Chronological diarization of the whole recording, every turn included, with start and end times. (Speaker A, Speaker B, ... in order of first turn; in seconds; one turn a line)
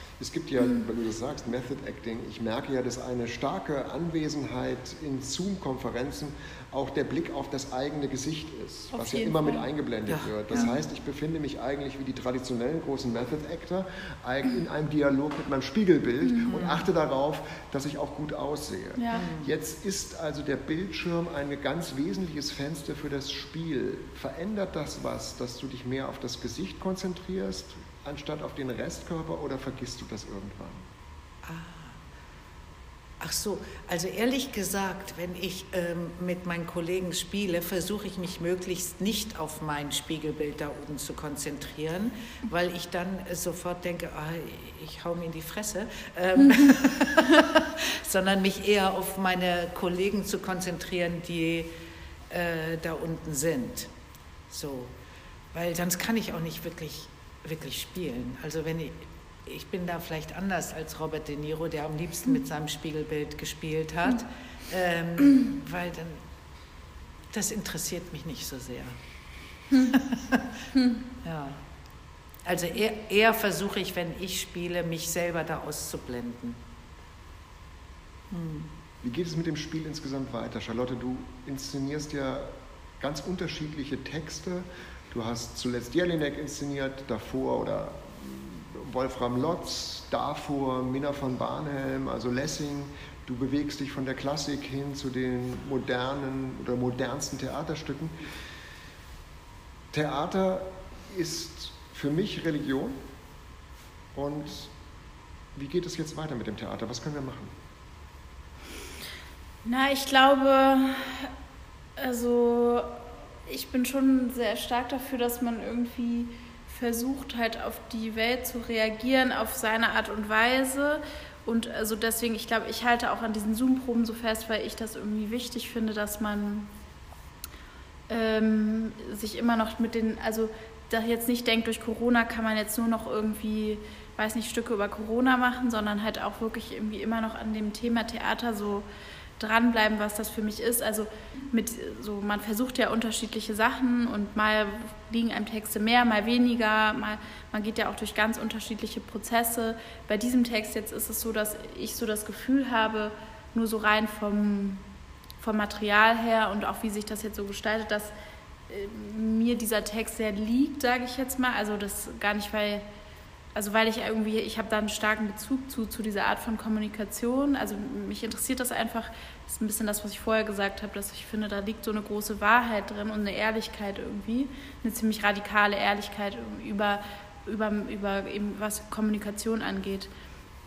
Speaker A: 0.2-30.9
Speaker B: 8.9-9.7
Speaker C: 10.1-10.7
Speaker B: 16.2-16.5
Speaker C: 16.5-16.9
Speaker B: 18.9-19.2
Speaker C: 19.1-19.5
Speaker C: 31.4-32.0
Speaker C: 33.2-51.7
Speaker C: 52.3-53.9
Speaker C: 54.5-54.9
Speaker C: 55.5-66.2
Speaker C: 67.3-69.0
Speaker C: 69.7-70.5
Speaker C: 71.2-71.6
Speaker C: 72.4-76.6
Speaker C: 78.3-78.7
Speaker A: 79.0-98.1
Speaker A: 99.9-103.0
Speaker A: 104.1-104.7
Speaker A: 105.5-107.5
Speaker B: 109.6-111.3
Speaker B: 112.0-126.7
Speaker B: 128.1-138.8
Speaker B: 139.4-154.8
Speaker B: 155.4-158.1
Speaker B: 158.7-162.8
Speaker B: 163.5-180.1